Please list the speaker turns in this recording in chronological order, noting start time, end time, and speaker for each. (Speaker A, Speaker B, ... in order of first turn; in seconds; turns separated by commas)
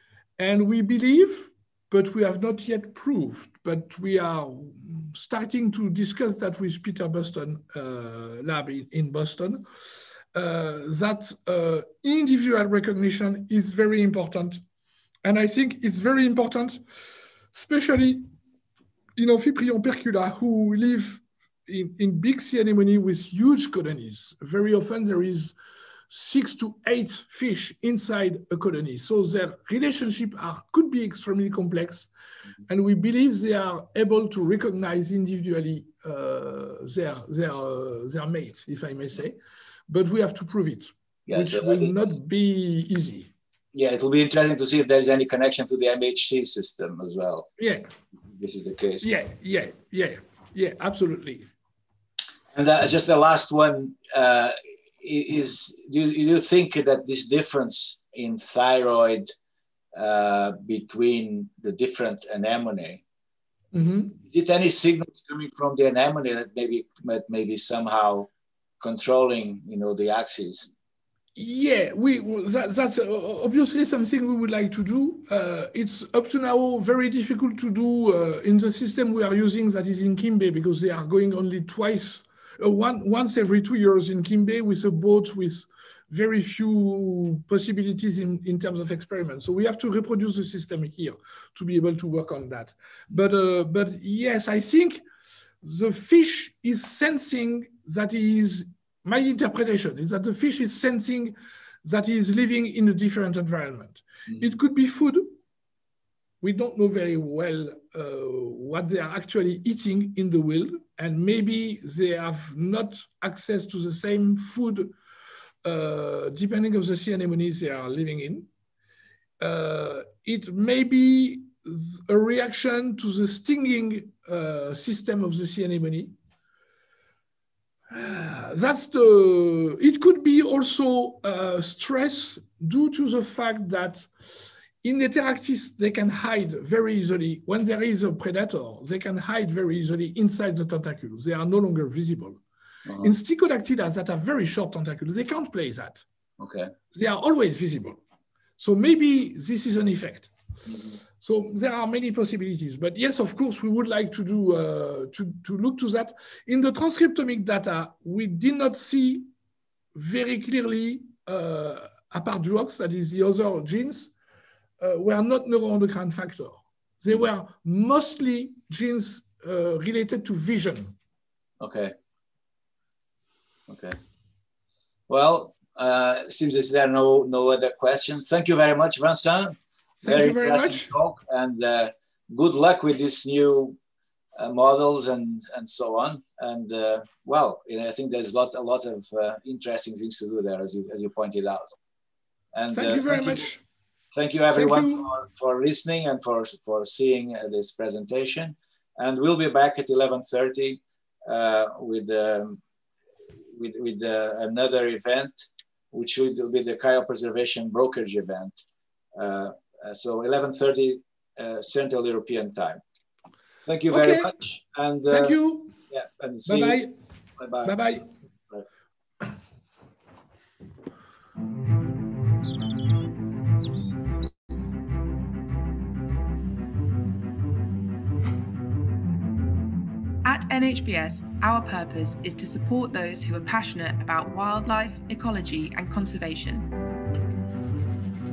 Speaker A: 0.4-9.7, Speaker A: 10.3-14.6, Speaker A: 15.2-16.8, Speaker A: 17.5-18.3, Speaker A: 19.2-25.6, Speaker A: 26.1-32.1, Speaker A: 32.7-39.4, Speaker A: 39.9-43.3, Speaker B: 41.3-42.1, Speaker B: 43.7-47.5, Speaker A: 47.6-47.9, Speaker B: 48.4-49.1, Speaker A: 49.0-51.5, Speaker B: 52.5-59.3, Speaker B: 59.9-63.0, Speaker A: 63.7-64.2, Speaker B: 64.2-68.3, Speaker B: 68.8-70.7, Speaker A: 71.4-95.0, Speaker A: 95.6-105.3, Speaker A: 106.4-114.9, Speaker A: 115.6-118.5, Speaker A: 119.4-126.1, Speaker A: 127.9-134.1, Speaker A: 134.8-142.4, Speaker B: 142.9-143.1, Speaker A: 143.0-146.1, Speaker B: 146.4-146.7, Speaker A: 146.9-148.0, Speaker A: 148.6-150.3, Speaker B: 150.7-151.0, Speaker A: 151.2-159.3, Speaker A: 159.9-164.1, Speaker A: 164.8-170.9, Speaker B: 171.6-171.9, Speaker B: 173.7-174.0, Speaker B: 175.1-183.8, Speaker A: 180.0-180.9, Speaker B: 184.4-191.8, Speaker B: 192.5-193.5, Speaker A: 192.7-193.6, Speaker B: 194.1-202.6, Speaker A: 194.5-195.1, Speaker B: 203.5-208.6, Speaker B: 209.2-212.8, Speaker B: 213.7-216.8, Speaker A: 213.9-214.3, Speaker A: 215.1-215.8, Speaker A: 216.5-216.9, Speaker B: 217.4-217.8, Speaker A: 217.6-218.1, Speaker C: 230.2-236.7